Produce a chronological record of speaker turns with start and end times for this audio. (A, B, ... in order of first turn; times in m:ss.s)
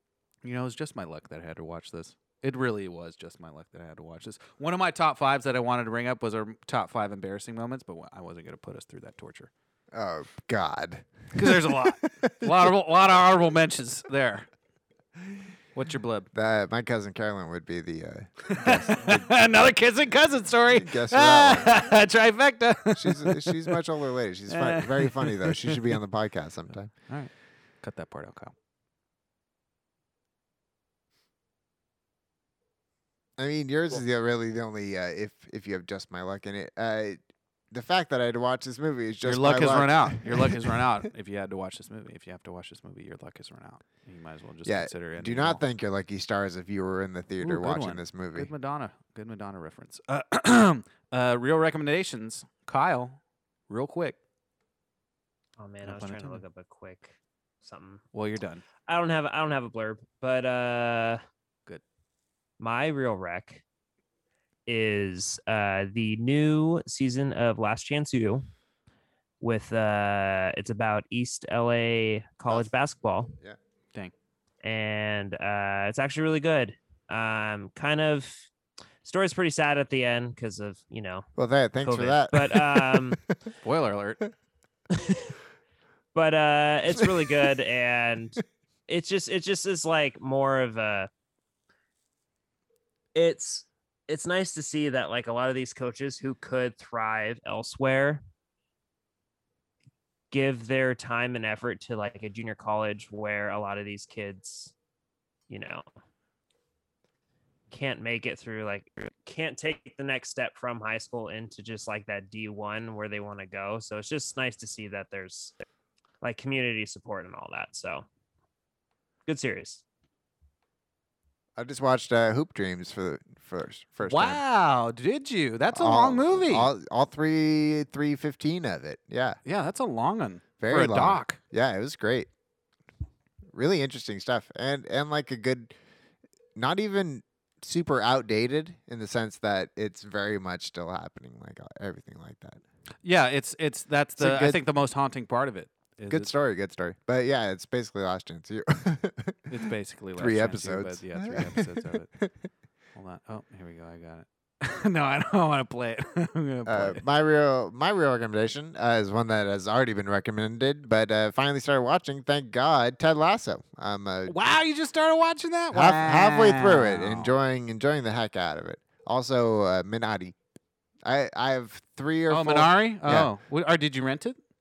0:00.4-0:09.5 A
0:09.9-0:12.7 B
0:11.4-0:14.5 A
0:15.8-0:16.3 A
0:16.3-0:19.4 B
0:18.4-0:23.8 A
0:20.7-0:21.9 B
0:23.0-0:26.9 B
0:24.5-0:26.0 A
0:27.8-0:28.5 A
0:33.4-0:40.8 B
0:39.2-0:45.6 A
0:44.6-0:48.5 B
0:47.4-0:53.2 A
0:53.7-0:54.2 A
0:55.6-0:58.0 C
0:55.8-0:56.4 A
0:58.1-0:58.6 A
0:58.9-1:01.2 C
1:02.6-1:03.6 C
1:04.7-1:08.5 C
1:09.4-1:13.4 C
1:14.6-1:18.5 C
1:19.0-1:21.3 C
1:21.4-1:23.5 B
1:21.8-1:23.2 C
1:23.6-1:24.2 A
1:26.1-1:31.1 C
1:33.2-1:38.2 C
1:40.3-1:44.7 C
1:45.5-1:45.8 C
1:47.7-1:55.6 C
1:56.2-1:58.1 C
1:59.3-1:59.8 C
2:01.6-2:04.4 B
2:04.0-2:06.7 A
2:05.7-2:09.4 B
2:09.4-2:11.4 A
2:10.6-2:12.3 B
2:13.5-2:15.7 B
2:16.6-2:22.6 B
2:23.0-2:26.3 A
2:24.2-2:24.6 B
2:26.1-2:29.6 B
2:29.5-2:32.1 A
2:30.2-2:32.3 B
2:33.0-2:37.0 A
2:36.7-2:44.5 B
2:44.3-2:47.4 A
2:45.7-2:50.4 B
2:51.0-2:53.3 B
2:52.3-2:54.4 A